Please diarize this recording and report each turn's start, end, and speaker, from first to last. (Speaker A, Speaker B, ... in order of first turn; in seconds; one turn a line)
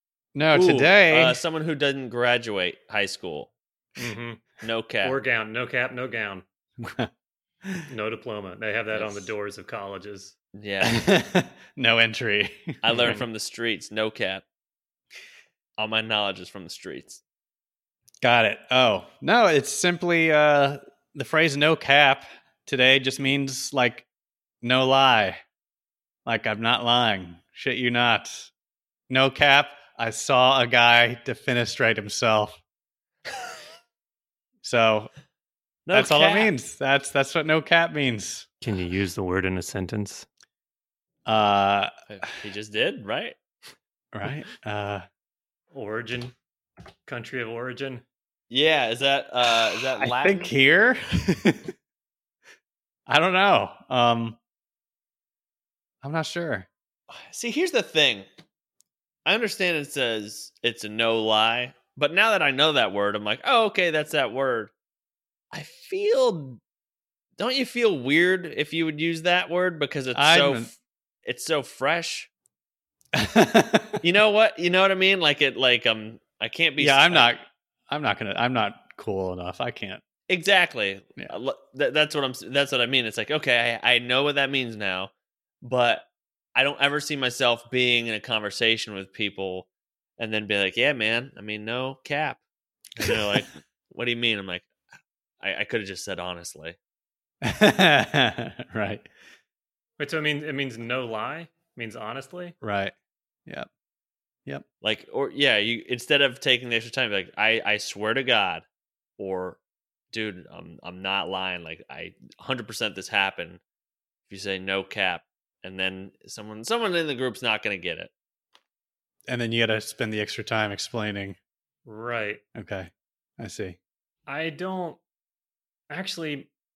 Speaker A: 0.3-1.4
Speaker B: 0.5-3.5
Speaker C: 4.0-4.4
Speaker B: 4.6-5.2
Speaker C: 5.0-6.5
Speaker A: 6.8-7.1
Speaker C: 7.9-10.3
Speaker B: 8.9-9.3
Speaker B: 10.6-11.1
Speaker A: 10.8-13.2
Speaker B: 12.8-14.4
Speaker C: 12.9-13.2
Speaker B: 15.8-17.2
Speaker A: 18.2-24.1
Speaker A: 24.6-25.4
Speaker A: 26.3-28.5
Speaker A: 29.1-32.6
Speaker A: 34.6-35.1
Speaker B: 35.9-36.5
Speaker A: 35.9-38.5
Speaker C: 38.6-40.3
Speaker A: 41.3-41.9
Speaker B: 42.1-43.4
Speaker A: 44.1-45.1
Speaker C: 45.7-46.3
Speaker C: 47.1-48.0
Speaker B: 48.5-50.5
Speaker A: 50.0-51.7
Speaker A: 53.1-54.4
Speaker A: 56.0-56.7
Speaker B: 57.1-58.3
Speaker B: 59.3-64.7
Speaker B: 65.5-66.6
Speaker B: 67.4-70.7
Speaker A: 70.1-70.7
Speaker B: 71.2-72.3
Speaker A: 73.1-74.0
Speaker B: 74.0-77.3
Speaker A: 76.8-80.0
Speaker B: 80.3-85.1
Speaker B: 85.6-92.4
Speaker B: 93.0-94.7
Speaker A: 93.0-93.4
Speaker B: 95.4-96.8
Speaker A: 97.4-99.1
Speaker C: 100.0-102.5
Speaker A: 102.6-102.9
Speaker B: 104.8-108.7
Speaker B: 109.2-109.6
Speaker B: 110.1-113.6
Speaker B: 114.3-118.1
Speaker A: 119.3-121.4
Speaker C: 121.8-122.4
Speaker A: 122.5-123.8
Speaker C: 124.3-125.0
Speaker C: 125.9-126.5